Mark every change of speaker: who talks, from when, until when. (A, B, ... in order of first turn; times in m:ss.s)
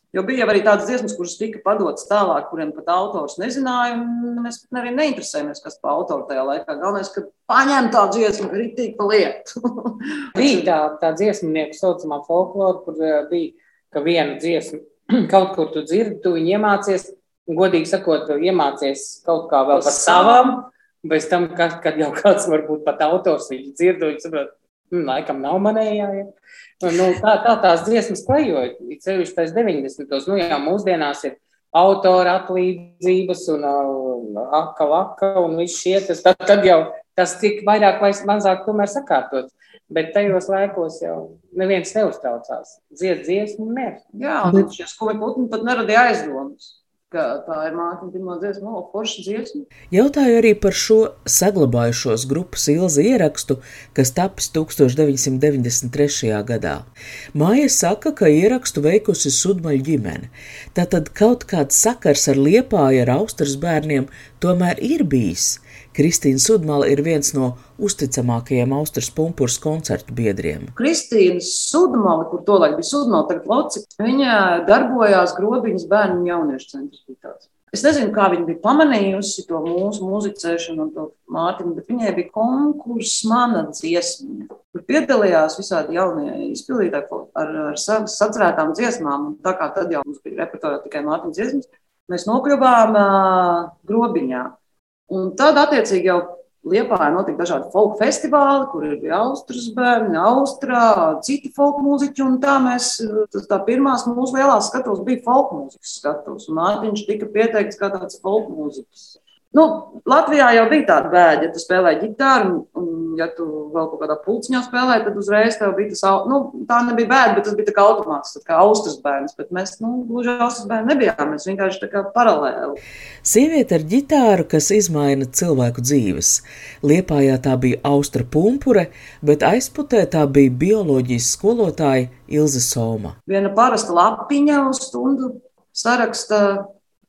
0:00.1-0:10.7 A
0:10.3-0:26.3 B
0:19.7-0:20.6 A
0:26.8-0:44.0 B
0:44.1-0:49.6 A
0:49.9-1:10.7 C
1:10.8-1:34.5 A
1:35.1-2:02.8 A
2:03.2-2:13.2 C
2:13.3-2:16.7 A